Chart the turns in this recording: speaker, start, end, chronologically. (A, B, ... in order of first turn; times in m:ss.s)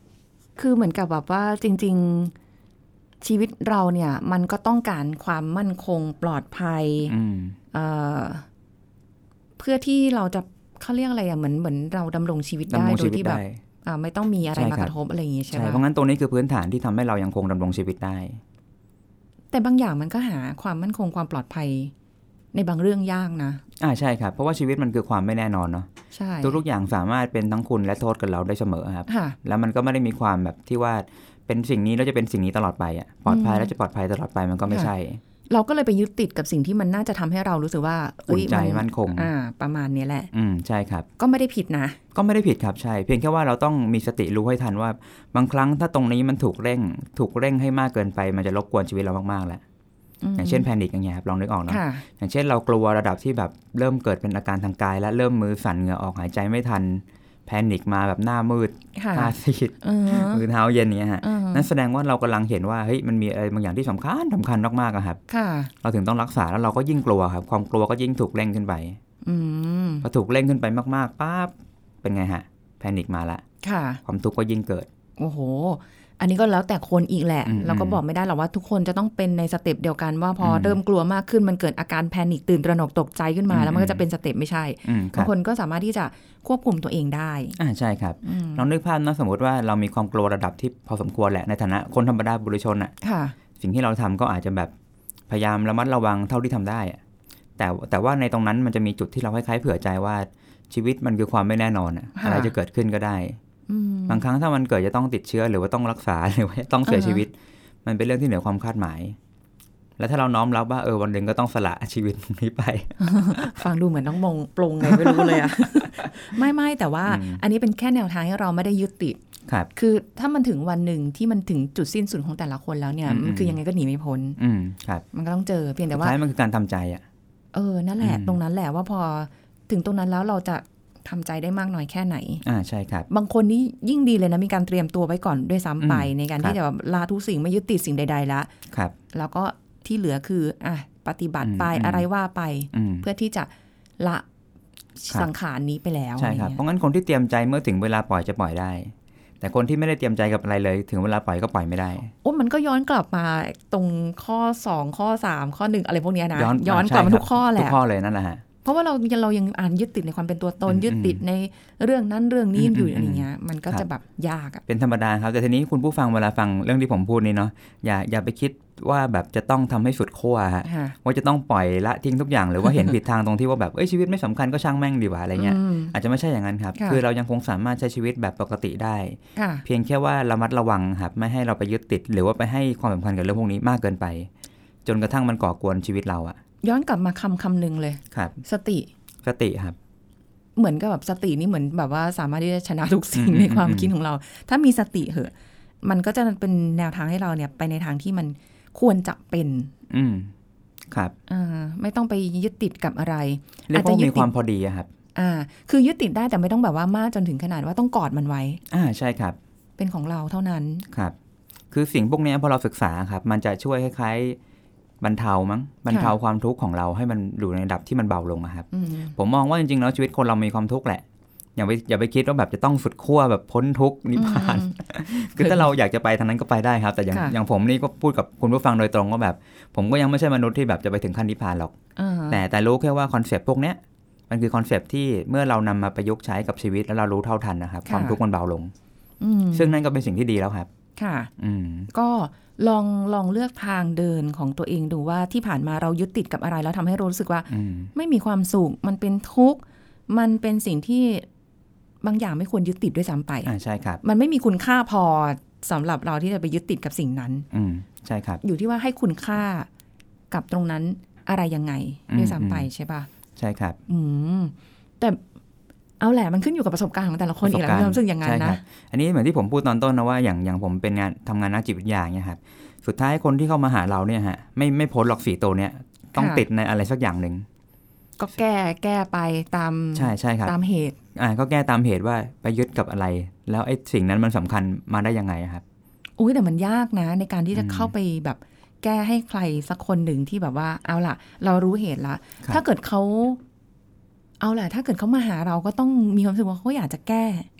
0:00.6-0:02.3 A
0:03.2-0:07.1 A
0:07.1-0:07.6 B
0:07.7-0:08.4 A
0:09.6-0:15.8 A
0:12.7-0:13.6 B
0:14.6-0:14.9 B
0:15.5-0:18.4 B
0:19.5-0:21.9 A
0:22.5-0:23.6 A
0:23.8-0:25.9 B
0:26.1-0:26.6 A
0:26.4-0:35.2 B
0:29.1-0:29.4 A
0:33.3-0:33.7 A
0:35.5-0:40.3 A
0:38.3-0:39.3 B
0:40.3-0:41.1 B
0:41.2-0:42.0 A
0:42.1-0:49.6 B
0:50.2-0:50.7 A
0:50.4-1:05.2 B
0:51.7-0:52.0 A
0:59.0-1:00.4 A
1:01.2-1:01.7 A
1:05.3-1:05.7 A
1:05.8-1:09.0 B
1:09.2-1:10.1 A
1:10.0-1:13.4 B
1:13.6-1:14.0 A
1:14.0-1:14.9 B
1:15.2-1:27.6 A
1:17.5-1:18.0 B
1:20.4-1:20.8 B
1:23.5-1:24.0 B
1:24.8-1:25.3 B
1:27.6-1:32.9 B
1:28.2-1:28.6 A
1:33.0-1:33.4 A
1:33.6-1:34.7 B
1:35.3-1:37.0 B
1:37.6-1:43.4 B
1:42.2-1:42.5 A
1:43.7-1:44.2 A
1:44.1-1:47.3 B
1:46.9-1:47.2 A
1:47.8-1:49.2 B
1:50.0-1:53.5 B
1:53.0-1:59.2 A
1:54.8-1:56.1 B
1:57.0-1:57.4 B
1:59.8-2:04.4 A
2:03.1-2:03.6 B
2:04.4-2:05.0 B
2:05.1-2:06.2 A
2:05.9-2:07.0 B
2:07.5-2:12.4 A
2:08.0-2:08.4 B
2:12.4-2:13.1 B
2:13.1-2:18.5 A
2:15.8-2:16.6 B
2:19.1-2:24.2 A
2:21.4-2:22.1 B
2:22.7-2:23.1 B
2:25.0-2:26.6 A
2:26.2-2:32.1 B
2:32.2-2:37.8 A
2:36.4-2:38.4 B
2:38.6-2:44.6 A
2:40.7-2:41.2 B
2:42.6-2:43.8 B
2:44.7-3:04.3 B
2:50.6-2:51.0 A
2:55.4-2:56.0 A
2:59.4-2:59.6 A
3:04.8-3:06.4 B
3:06.6-3:08.9 A
3:08.1-3:08.4 B
3:09.2-3:09.8 B
3:10.6-3:15.3 A
3:13.1-3:13.9 B
3:15.8-3:19.7 A
3:19.9-3:20.3 B
3:21.3-3:24.3 A
3:23.7-3:24.9 B
3:25.2-3:28.6 A
3:28.7-3:29.4 B
3:29.8-3:30.8 A
3:31.7-3:34.4 B
3:35.0-3:41.0 B
3:38.7-3:39.2 A
3:41.6-3:51.7 B
3:44.2-3:44.8 A
3:45.4-3:45.7 A
3:52.0-3:52.4 A
3:52.3-3:58.7 B
3:57.9-3:58.2 A
3:59.2-3:59.8 A
3:59.5-4:00.7 B
4:01.0-4:01.3 A
4:01.4-4:01.9 B
4:01.9-4:11.3 A
4:07.5-4:07.9 B
4:12.0-4:13.5 A
4:13.5-4:14.0 B
4:14.0-4:17.5 A
4:17.5-4:18.4 B
4:18.4-4:19.7 A
4:20.3-4:23.1 A
4:22.1-4:22.7 B
4:23.4-4:23.8 B
4:23.9-4:25.2 A
4:26.0-4:28.6 A
4:27.4-4:37.5 B
4:36.2-4:36.4 A
4:38.2-4:41.0 A
4:40.0-4:40.5 B
4:41.2-4:45.6 B
4:46.2-4:53.4 A
4:47.5-4:47.9 B
4:54.4-4:57.5 A